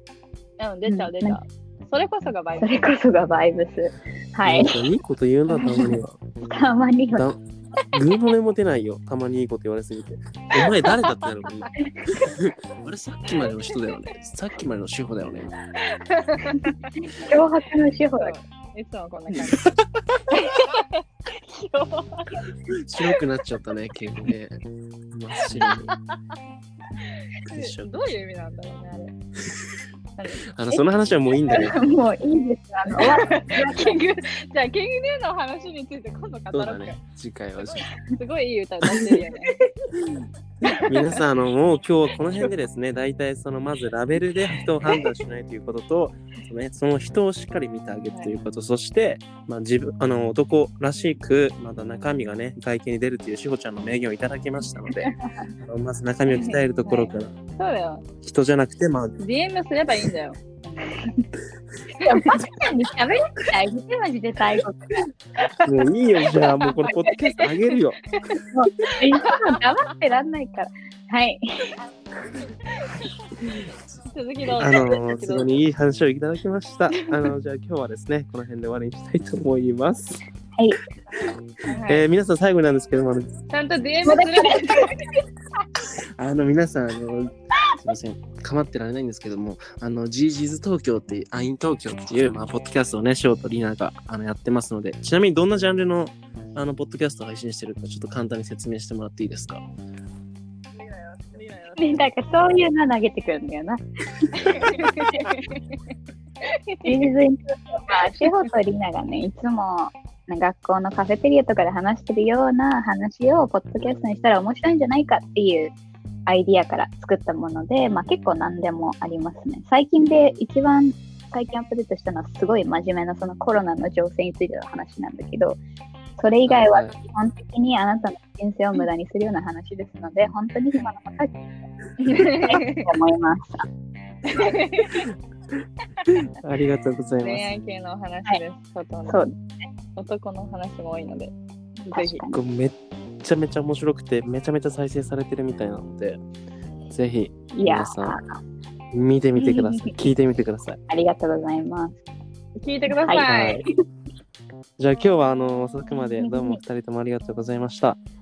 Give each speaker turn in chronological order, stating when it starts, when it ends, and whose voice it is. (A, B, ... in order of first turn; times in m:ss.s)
0:00.6-0:03.0 A
0:00.8-0:01.4 B
0:02.6-0:04.9 B
0:04.4-0:06.2 C
0:05.5-0:07.3 B
0:07.9-0:15.6 C
0:10.6-0:11.3 A
0:12.0-0:12.3 B
0:15.8-0:17.3 A
0:17.1-0:18.4 B
0:18.2-0:22.4 A
0:19.6-0:20.2 C
0:22.7-0:26.0 C
0:25.5-0:26.2 A
0:27.0-0:29.1 A
0:27.4-0:28.1 C
0:30.2-0:30.5 A
0:30.5-0:31.8 C
0:31.5-0:34.2 B
0:32.9-0:37.0 A
0:36.5-0:37.9 C
0:37.6-0:39.6 A
0:40.0-0:55.1 C
0:40.6-0:41.2 A
0:48.1-0:48.4 A
0:54.9-0:55.5 B
0:55.6-0:57.3 C
0:56.3-0:58.0 A
0:58.2-0:59.1 C
0:59.2-1:01.0 A
1:02.0-1:02.4 A
1:02.0-1:05.1 B
1:05.6-1:08.0 C
1:06.3-1:07.5 A
1:06.8-1:07.1 B
1:08.1-1:09.7 A
1:08.5-1:11.8 B
1:12.6-1:15.6 A
1:14.6-1:20.2 C
1:17.0-1:17.3 A
1:21.2-1:22.0 A
1:21.9-1:23.3 C
1:23.5-1:25.0 A
1:24.0-1:25.2 B
1:26.2-1:39.6 C
1:40.8-1:42.0 A
1:41.8-1:45.3 B
1:44.3-1:45.8 A
1:46.5-1:47.0 A
1:46.8-1:55.7 B
1:56.2-2:05.6 B
2:06.2-2:11.4 B
2:06.4-2:07.0 C
2:12.0-2:12.9 A
2:12.1-2:13.6 B
2:14.2-2:15.1 A
2:16.1-2:17.5 C
2:17.2-2:19.2 A
2:19.1-2:19.5 B
2:20.0-2:22.2 A
2:21.9-2:22.4 B
2:22.3-2:26.2 C
2:26.9-2:28.2 C
2:27.5-2:28.4 B
2:28.9-2:30.8 C
2:29.4-2:29.9 A
2:30.9-2:32.0 B
2:32.6-2:33.6 A
2:32.9-2:33.3 B
2:33.2-2:33.6 C
2:34.8-2:38.0 C
2:36.2-2:36.6 B